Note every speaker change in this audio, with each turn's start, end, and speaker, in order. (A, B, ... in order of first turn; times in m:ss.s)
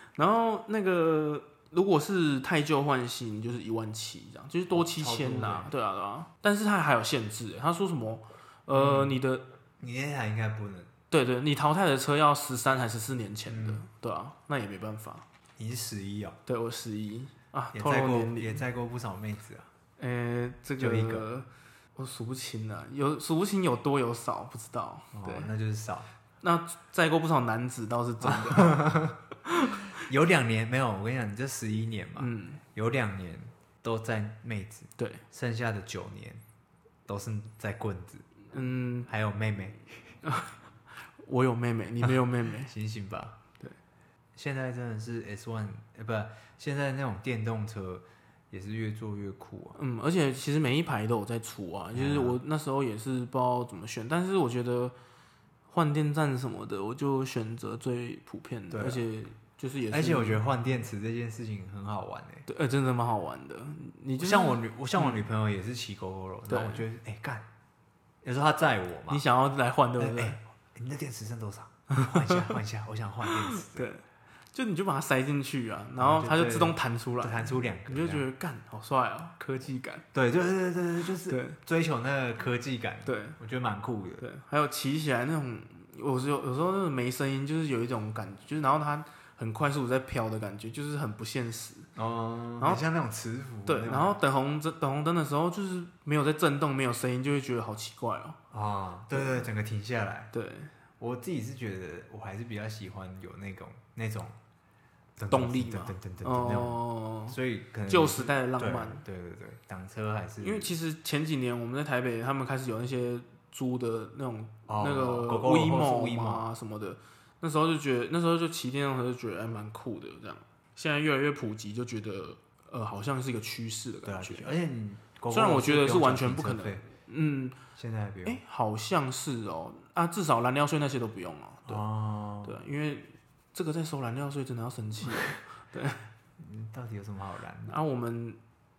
0:00.2-0:09.4 A
0:04.7-0:05.7 B
0:08.7-0:09.2 B
0:09.8-0:10.9 B
0:11.1-0:15.2 A
0:13.5-0:13.8 B
0:15.6-0:16.4 B
0:16.5-0:18.6 A
0:17.7-0:19.7 B
0:20.0-0:25.5 A
0:20.8-0:21.3 B
0:25.1-0:26.1 B
0:26.4-0:28.8 A
0:28.2-0:29.2 B
0:29.5-0:29.8 A
0:29.9-0:36.4 B
0:32.2-0:32.6 A
0:35.0-0:35.2 A
0:37.1-0:38.3 B
0:38.5-0:39.1 A
0:39.1-0:40.1 B
0:40.2-0:42.7 A
0:42.7-0:43.4 B
0:44.4-0:49.8 B
0:49.8-0:54.9 A
0:51.9-0:52.4 B
0:55.7-1:00.4 A
0:58.7-0:59.0 B
0:59.9-1:02.5 B
1:02.5-1:05.2 A
1:04.2-1:07.4 B
1:06.5-1:06.8 A
1:08.2-1:09.2 B
1:09.1-1:10.4 A
1:10.0-1:13.9 B
1:11.9-1:12.5 A
1:13.3-1:20.0 A
1:16.0-1:18.2 B
1:20.1-1:24.2 B
1:21.2-1:21.6 A
1:23.0-1:23.4 A
1:24.2-1:31.9 A
1:32.0-1:34.2 B
1:33.6-1:38.4 A
1:38.5-1:40.3 B
1:39.1-1:39.4 A
1:40.3-1:40.7 A
1:41.0-1:44.4 B
1:45.2-1:50.7 B
1:45.3-1:47.4 A
1:47.9-1:49.0 A
1:50.4-2:04.5 A
1:54.7-1:56.5 B
2:04.0-2:06.9 B
2:05.3-2:07.6 A
2:07.8-2:08.4 B
2:08.2-2:11.8 A
2:11.7-2:12.6 B
2:12.4-2:16.0 A
2:16.4-2:17.8 B
2:17.7-2:18.4 A